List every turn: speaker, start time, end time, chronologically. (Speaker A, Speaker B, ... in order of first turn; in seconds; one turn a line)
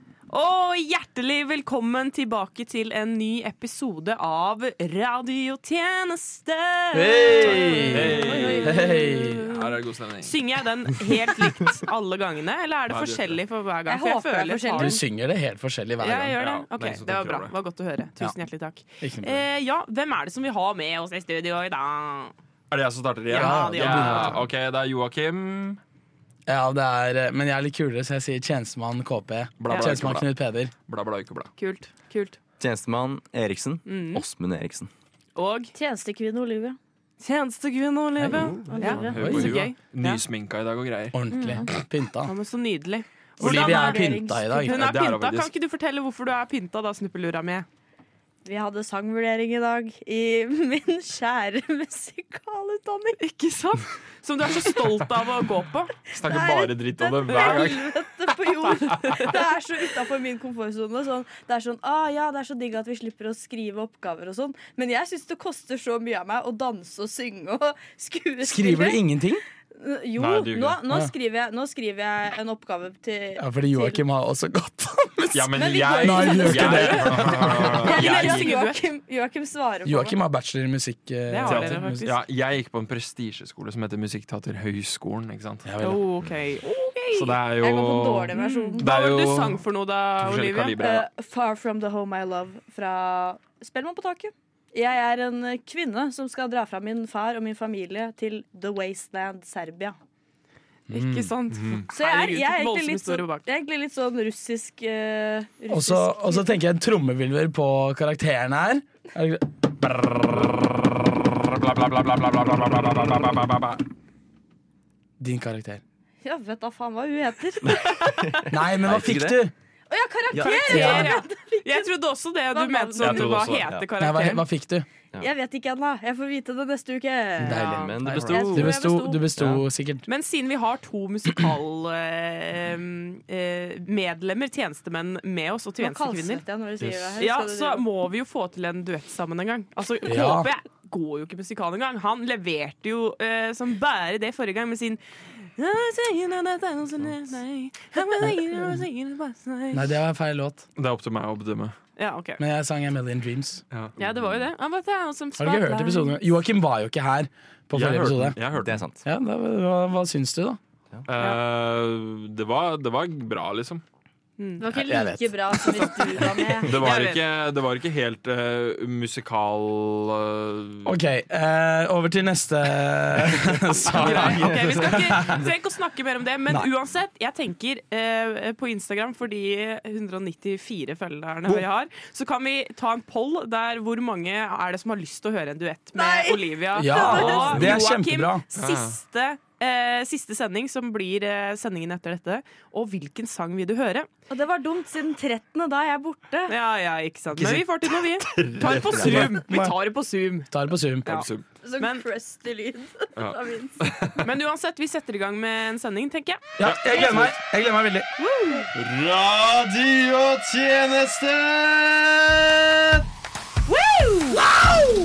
Speaker A: 0.3-9.6
Speaker B: 6.9-9.5
Speaker C: 7.4-10.3
Speaker D: 7.7-9.3
Speaker A: 10.2-15.0
Speaker C: 12.9-13.4
Speaker D: 13.8-15.0
Speaker B: 14.7-16.4
Speaker A: 16.0-22.3
Speaker C: 16.4-17.5
Speaker B: 19.0-19.4
Speaker C: 22.7-25.8
Speaker A: 23.3-24.4
Speaker B: 23.3-24.4
Speaker B: 26.5-30.7
Speaker C: 29.6-30.3
Speaker A: 29.7-29.9
Speaker C: 30.9-31.5
Speaker A: 31.6-32.4
Speaker E: 32.6-34.9
Speaker A: 33.9-34.2
Speaker A: 35.4-35.7
Speaker D: 35.7-36.8
Speaker A: 37.2-40.2
Speaker B: 38.2-38.5
Speaker D: 38.7-39.1
Speaker C: 38.8-41.2
Speaker B: 39.1-39.6
Speaker B: 41.1-42.3
Speaker D: 41.3-41.7
Speaker A: 42.2-47.7
Speaker D: 43.4-44.8
Speaker B: 43.4-44.8
Speaker C: 44.7-45.5
Speaker D: 48.4-53.2
Speaker A: 53.2-55.9
Speaker D: 56.1-69.0
Speaker C: 56.1-57.9
Speaker C: 58.8-59.2
Speaker B: 68.4-69.4
Speaker D: 69.7-74.0
Speaker C: 70.2-70.8
Speaker B: 73.3-77.8
Speaker C: 75.3-78.5
Speaker D: 75.5-80.2
Speaker A: 76.4-78.8
Speaker B: 79.8-82.0
Speaker A: 81.3-82.2
Speaker C: 81.4-85.8
Speaker B: 85.6-86.0
Speaker A: 85.8-87.4
Speaker C: 87.1-89.6
Speaker D: 87.6-88.9
Speaker A: 88.3-90.8
Speaker C: 90.2-91.0
Speaker D: 90.8-100.0
Speaker B: 100.9-101.3
Speaker A: 100.9-103.4
Speaker C: 101.5-101.8
Speaker D: 101.9-106.5
Speaker B: 105.7-109.6
Speaker C: 109.8-113.8
Speaker B: 115.2-115.8
Speaker D: 116.2-118.0
Speaker E: 117.7-119.4
Speaker A: 117.8-118.4
Speaker B: 118.5-119.5
Speaker D: 119.9-121.9
Speaker E: 120.3-120.8
Speaker A: 120.4-124.5
Speaker B: 120.7-121.1
Speaker D: 122.5-123.5
Speaker C: 123.0-123.7
Speaker B: 124.0-124.9
Speaker D: 125.2-129.3
Speaker B: 127.4-130.1
Speaker A: 127.4-127.8
Speaker E: 127.7-128.6
Speaker C: 128.2-128.5
Speaker E: 129.4-129.6
Speaker A: 130.1-136.4
Speaker D: 135.8-137.8
Speaker C: 136.8-137.2
Speaker A: 137.2-145.0
Speaker B: 140.0-140.5
Speaker A: 145.6-149.9
Speaker B: 149.7-150.6
Speaker C: 150.8-151.7
Speaker A: 152.0-152.4
Speaker B: 152.4-153.6
Speaker A: 154.0-156.2
Speaker E: 154.0-154.4
Speaker B: 155.4-158.4
Speaker C: 157.7-158.8
Speaker E: 158.5-159.0
Speaker B: 159.0-160.6
Speaker C: 161.1-163.8
Speaker A: 164.4-164.6
Speaker D: 164.6-166.9
Speaker B: 164.7-166.2
Speaker A: 166.6-167.2
Speaker C: 166.6-170.9
Speaker B: 170.8-175.5
Speaker C: 173.7-175.2
Speaker A: 173.8-194.1
Speaker D: 185.9-187.6
Speaker B: 186.7-188.4
Speaker C: 188.5-189.0
Speaker D: 194.3-196.6
Speaker A: 196.5-200.5
Speaker B: 197.4-197.6
Speaker C: 198.2-199.4
Speaker B: 199.0-199.8
Speaker B: 200.5-201.2
Speaker C: 201.1-201.4
Speaker D: 201.6-203.8
Speaker C: 203.2-204.2
Speaker A: 204.2-206.4
Speaker B: 206.6-208.1
Speaker C: 206.6-207.3
Speaker A: 208.2-208.7
Speaker C: 208.7-212.5
Speaker A: 213.7-214.4